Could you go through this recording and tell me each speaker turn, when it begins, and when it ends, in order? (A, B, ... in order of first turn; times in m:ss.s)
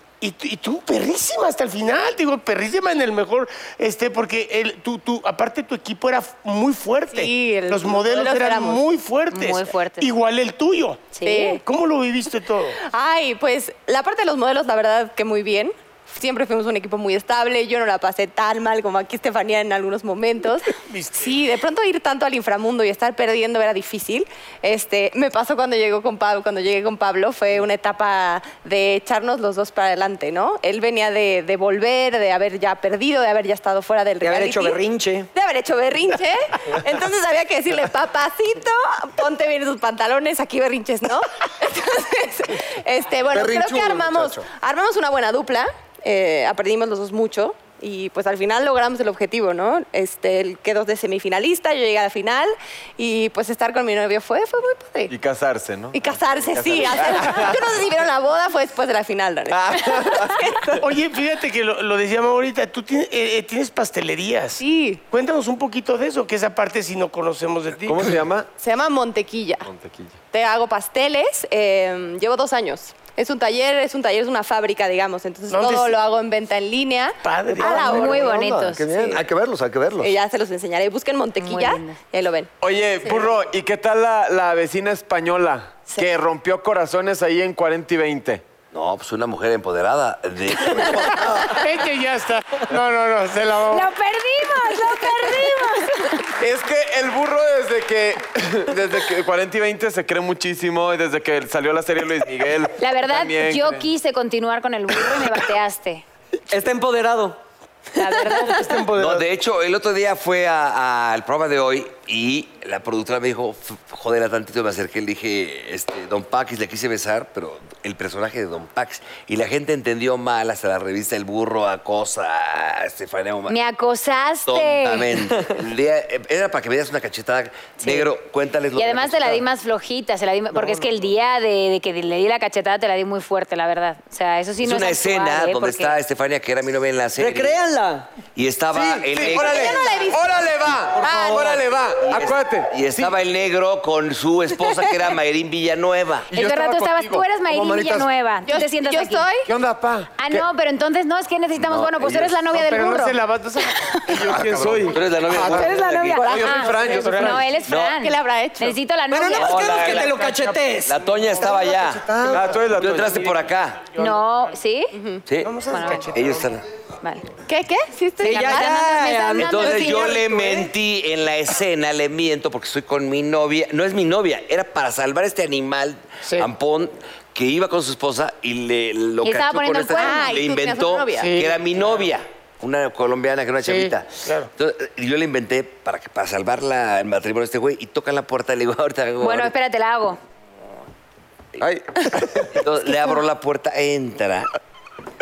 0:00.2-0:12.8 A
0:07.1-0:08.8 B
0:09.3-0:10.1 C
0:11.1-0:11.6 C
0:11.2-0:11.6 B
0:12.8-0:34.8 B
0:20.9-0:21.3 A
0:34.2-0:35.3 D
0:35.3-0:55.1 B
0:43.3-0:44.4 E
0:55.1-0:57.6 F
0:55.9-1:00.8 B
0:59.5-1:00.4 F
1:00.8-1:08.1 A
1:04.6-1:05.0 B
1:07.8-1:08.5 F
1:08.6-1:09.7 B
1:09.6-1:10.2 F
1:10.3-1:18.3 B
1:15.5-1:16.0 A
1:17.2-1:18.2 A
1:17.5-1:20.1 E
1:17.6-1:18.9 C
1:18.9-1:19.2 B
1:20.0-1:22.5 B
1:21.4-1:22.0 C
1:22.6-1:28.4 F
1:28.7-1:31.3 G
1:30.7-1:31.4 E
1:31.5-1:33.9 A
1:33.7-1:36.3 C
1:36.4-1:43.9 F
1:42.8-1:46.0 C
1:46.5-1:47.4 D
1:48.0-1:48.8 C
1:48.4-1:49.3 A
1:48.9-2:03.6 G
2:03.5-2:05.1 C
2:04.4-2:09.4 G
2:07.8-2:08.1 C
2:08.8-2:16.0 C
2:14.6-2:17.6 G
2:17.2-2:18.1 D
2:18.4-2:19.9 G
2:18.7-2:23.1 F
2:19.2-2:21.7 B
2:21.1-2:21.4 G
2:22.0-2:26.3 G
2:26.3-2:27.2 F
2:26.3-2:29.3 C
2:27.5-2:28.1 E
2:28.4-2:29.5 B
2:29.5-2:30.4 F
2:30.2-2:33.2 C
2:31.6-2:32.4 G
2:32.5-2:35.0 A
2:33.8-2:34.2 C
2:34.1-2:37.5 F
2:34.9-2:36.4 G
2:35.4-2:39.6 C
2:36.2-2:38.8 B
2:37.0-2:37.4 A
2:37.6-2:38.0 G
2:39.1-2:41.0 D
2:39.4-2:40.2 G
2:39.8-2:40.6 A
2:40.8-2:43.9 G
2:41.5-2:42.4 E
2:42.1-2:43.3 F
2:44.0-2:45.0 C
2:44.9-2:45.2 B
2:45.2-2:46.6 G
2:45.4-2:46.5 A
2:45.7-2:46.1 C
2:47.0-2:47.3 C
2:47.4-2:50.1 B
2:48.2-2:50.2 D
2:48.2-2:50.3 C
2:49.4-3:09.5 G
2:59.2-3:00.3 C
2:59.9-3:01.4 B
3:01.2-3:01.5 A
3:03.6-3:04.5 A
3:09.2-3:10.2 C
3:11.6-3:12.6 F
3:12.4-3:14.5 G